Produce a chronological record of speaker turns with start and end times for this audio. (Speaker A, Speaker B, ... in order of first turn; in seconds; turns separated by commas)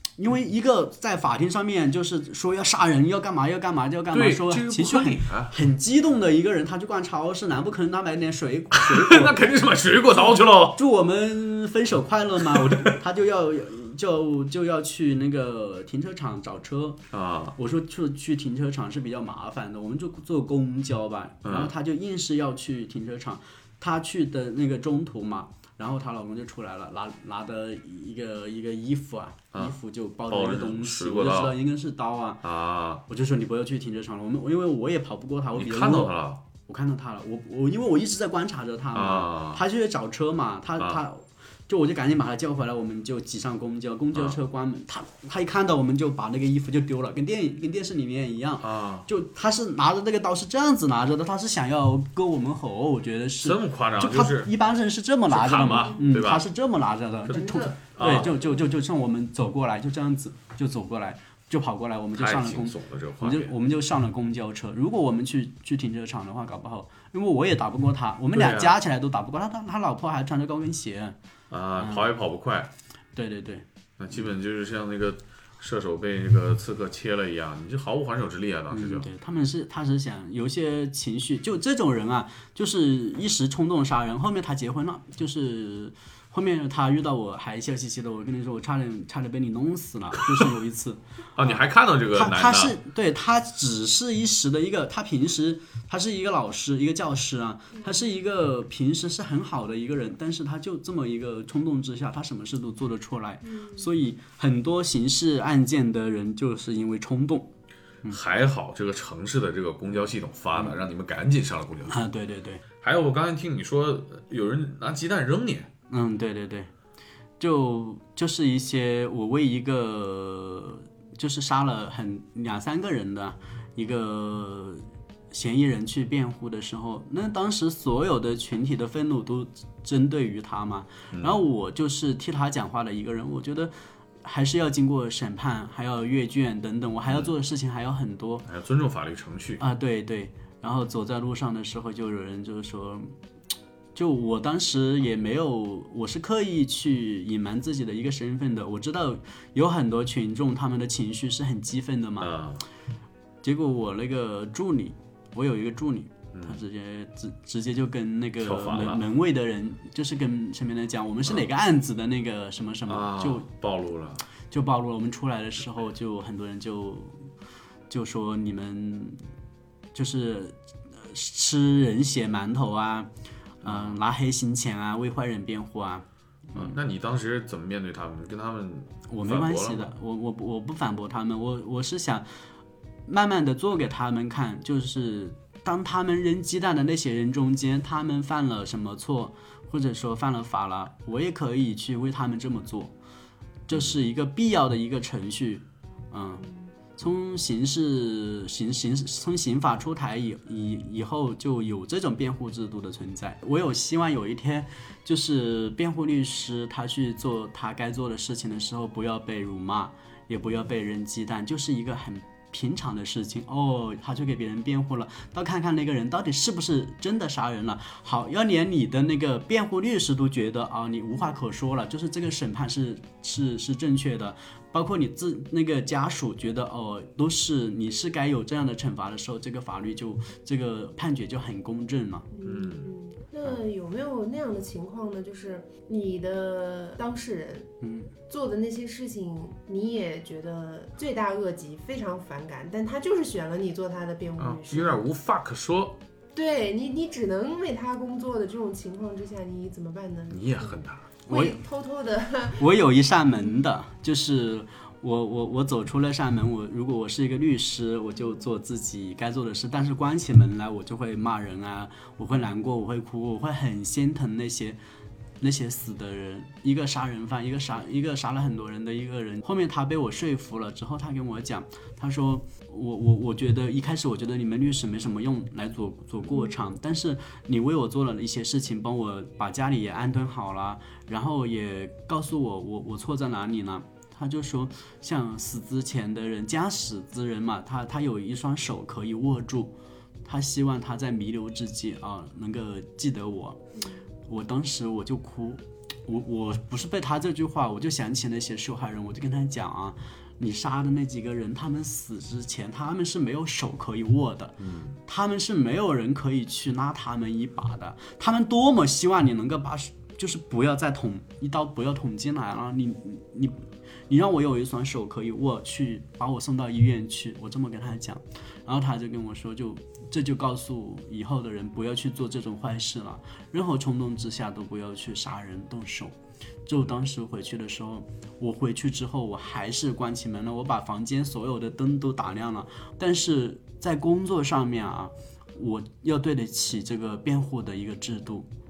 Speaker A: 0.2-9.5, Speaker B: 4.1-5.5, Speaker B: 8.7-10.8, Speaker A: 10.7-17.0, Speaker B: 12.4-13.0, Speaker B: 17.1-17.6, Speaker A: 17.6-32.4, Speaker B: 21.4-21.7, Speaker B: 30.3-31.6, Speaker B: 32.4-33.0, Speaker A: 33.1-71.2, Speaker B: 35.5-36.4, Speaker B: 38.9-39.6, Speaker B: 48.6-49.1, Speaker B: 53.4-54.5, Speaker B: 55.3-56.5, Speaker C: 55.7-56.1, Speaker B: 57.3-58.3, Speaker C: 57.3-58.7, Speaker B: 62.2-63.5, Speaker B: 68.3-68.8, Speaker B: 71.5-72.7, Speaker A: 71.8-72.1, Speaker A: 73.2-73.6, Speaker B: 74.0-79.1, Speaker A: 78.7-107.5, Speaker B: 91.4-92.8, Speaker C: 103.5-103.9, Speaker B: 108.1-112.0, Speaker A: 110.5-110.8, Speaker A: 111.9-112.6, Speaker B: 112.8-115.7, Speaker A: 115.9-116.7, Speaker A: 117.4-133.7, Speaker B: 131.1-131.4, Speaker A: 134.2-138.5, Speaker B: 138.4-139.6, Speaker A: 139.6-143.1, Speaker A: 143.9-152.4, Speaker B: 152.2-152.6, Speaker A: 153.4-163.5, Speaker B: 156.3-156.6, Speaker B: 158.4-159.0, Speaker B: 162.9-164.2, Speaker A: 164.5-167.3, Speaker A: 167.9-169.2, Speaker A: 169.9-173.1, Speaker B: 173.6-174.0, Speaker A: 173.6-176.8, Speaker B: 176.6-179.9, Speaker A: 179.1-182.3, Speaker A: 183.1-192.9, Speaker A: 193.7-232.3, Speaker C: 232.3-237.7, Speaker B: 232.4-232.9, Speaker A: 237.8-238.1, Speaker C: 238.3-245.0, Speaker B: 244.4-246.0, Speaker C: 246.3-252.6, Speaker B: 250.3-251.1, Speaker A: 251.3-251.6, Speaker A: 252.6-264.8, Speaker C: 253.3-253.7, Speaker A: 265.4-289.7, Speaker A: 290.2-293.6, Speaker C: 293.8-294.1, Speaker A: 294.3-338.5, Speaker B: 304.6-304.9